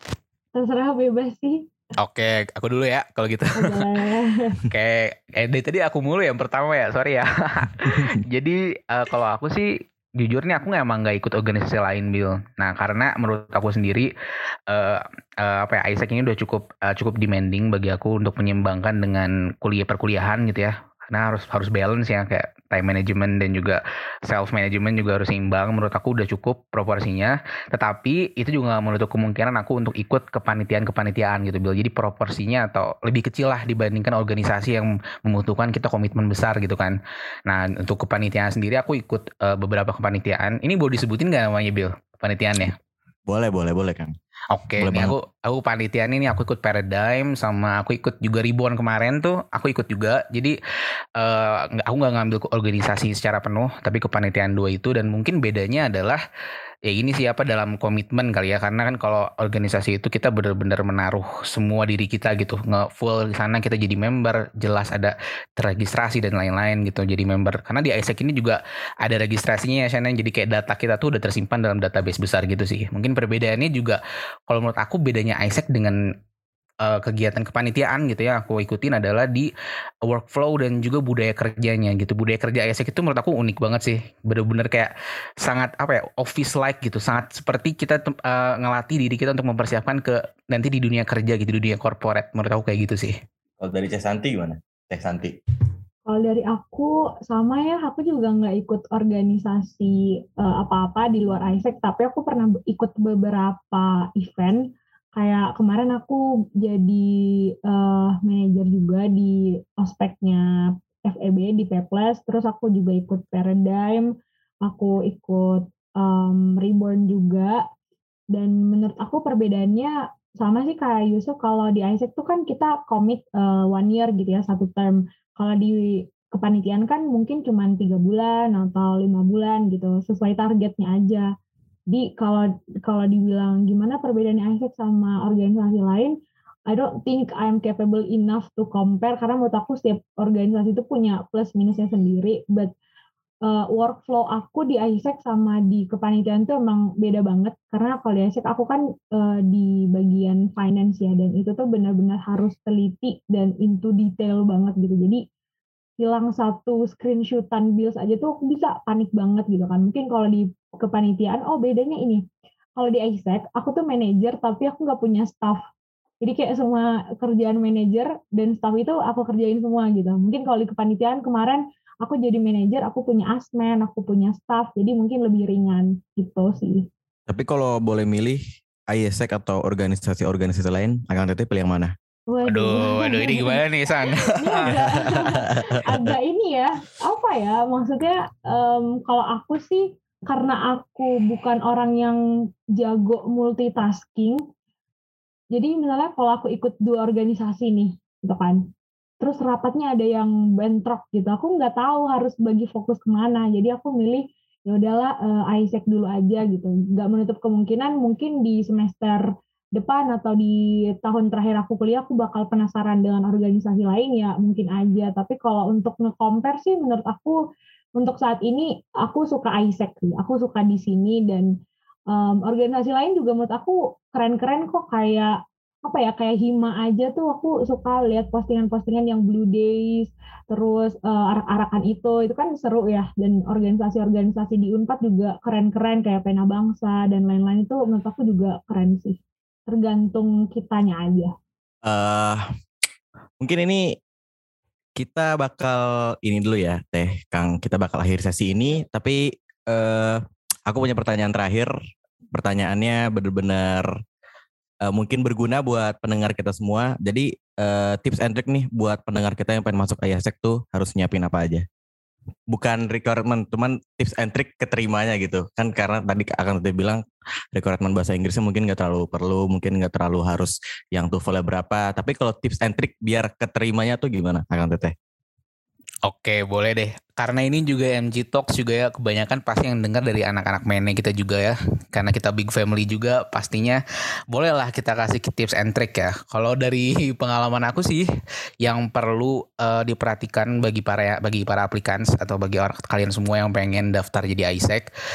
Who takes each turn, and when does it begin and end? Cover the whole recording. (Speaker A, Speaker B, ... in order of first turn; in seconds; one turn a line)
Speaker A: 0.5-1.6
Speaker B: 2.0-3.9
Speaker A: 3.5-4.6
Speaker B: 4.6-14.1
Speaker C: 7.9-8.2
Speaker B: 14.7-42.7
Speaker C: 43.3-44.1
Speaker B: 44.5-50.5
Speaker C: 44.8-45.1
Speaker B: 51.1-56.2
Speaker B: 56.9-76.0
Speaker B: 76.8-79.5
Speaker B: 80.0-93.2
Speaker C: 93.6-95.3
Speaker A: 96.1-107.1
Speaker A: 107.6-110.5
Speaker A: 111.0-114.1
Speaker A: 114.6-117.6
Speaker A: 118.3-131.2
Speaker A: 131.9-136.1
Speaker A: 136.7-142.7
Speaker A: 143.4-155.2
Speaker A: 156.0-162.2
Speaker A: 162.8-165.6
Speaker A: 166.2-176.9
Speaker C: 177.3-181.9
Speaker A: 182.3-192.2
Speaker B: 182.4-185.3
Speaker C: 184.9-186.1
Speaker A: 192.8-194.4
Speaker A: 195.5-198.6
Speaker A: 199.2-217.3
Speaker A: 218.0-221.5
Speaker A: 222.1-241.3
Speaker C: 241.8-242.4
Speaker C: 243.4-243.8
Speaker C: 245.0-251.7
Speaker C: 252.3-253.9
Speaker C: 254.8-261.6
Speaker C: 262.5-267.0
Speaker C: 267.5-274.9
Speaker B: 276.0-288.0
Speaker B: 288.6-294.9